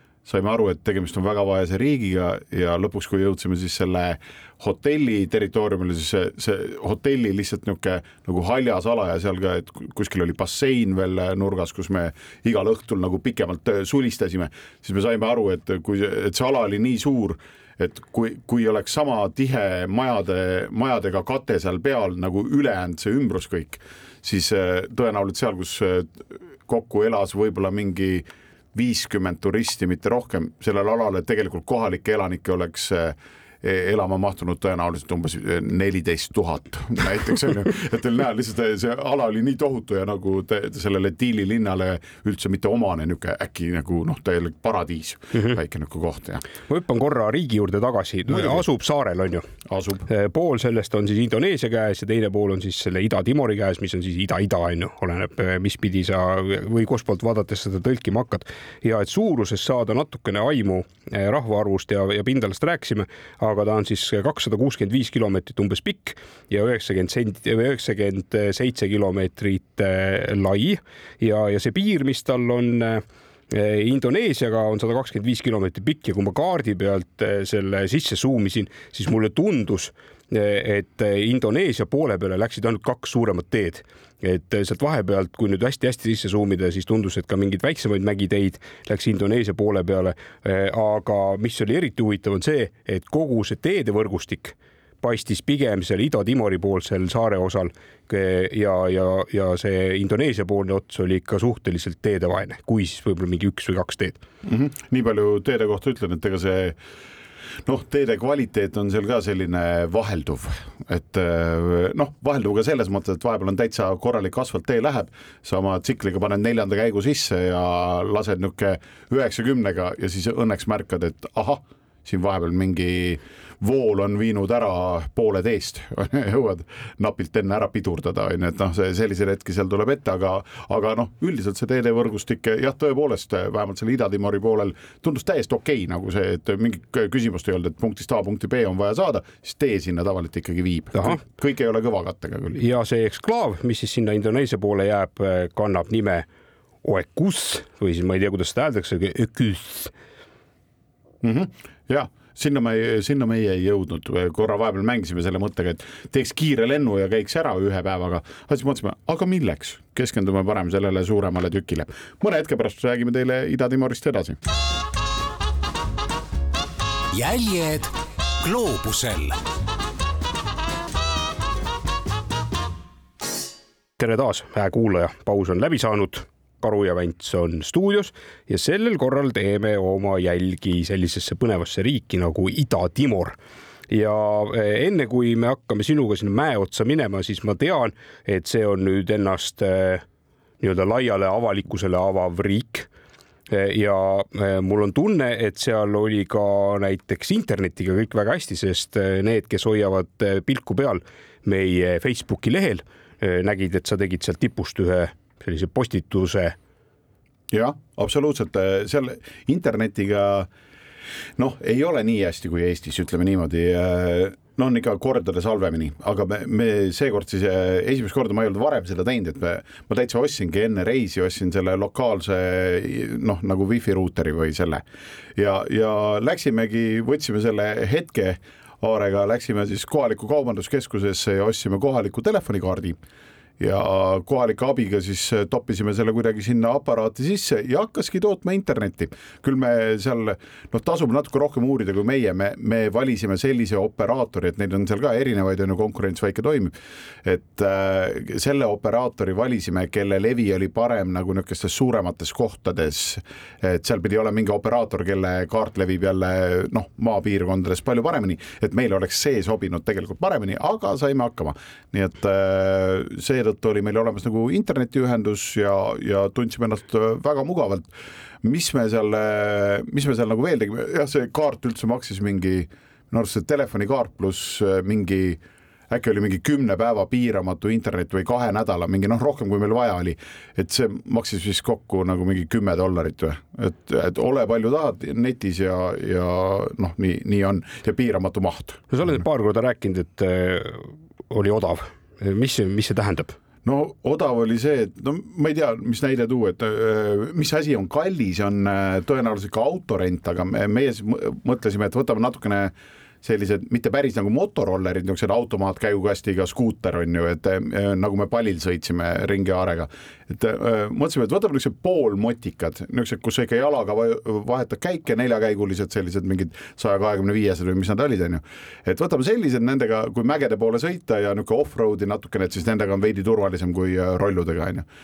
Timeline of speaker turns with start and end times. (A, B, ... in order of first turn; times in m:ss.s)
0:00.2-0:46.4 A
0:46.7-0:49.4 B
0:48.3-0:48.6 A
0:49.7-0:50.1 A
0:50.1-1:44.2 B
1:44.4-1:46.8 A
1:47.6-2:22.6 A
2:22.6-2:26.3 B
2:26.8-2:29.9 B
2:31.2-2:44.4 A
2:47.1-2:49.4 C
2:54.0-3:03.4 B
3:03.9-3:10.0 B
3:10.6-3:12.9 B
3:13.5-3:26.6 B
3:27.5-3:30.5 A
3:31.4-3:44.8 A
3:45.4-3:53.0 A
3:53.6-4:06.7 A
4:07.2-4:27.9 A
4:28.4-4:48.9 A
4:48.9-4:53.4 B
4:53.6-5:24.8 A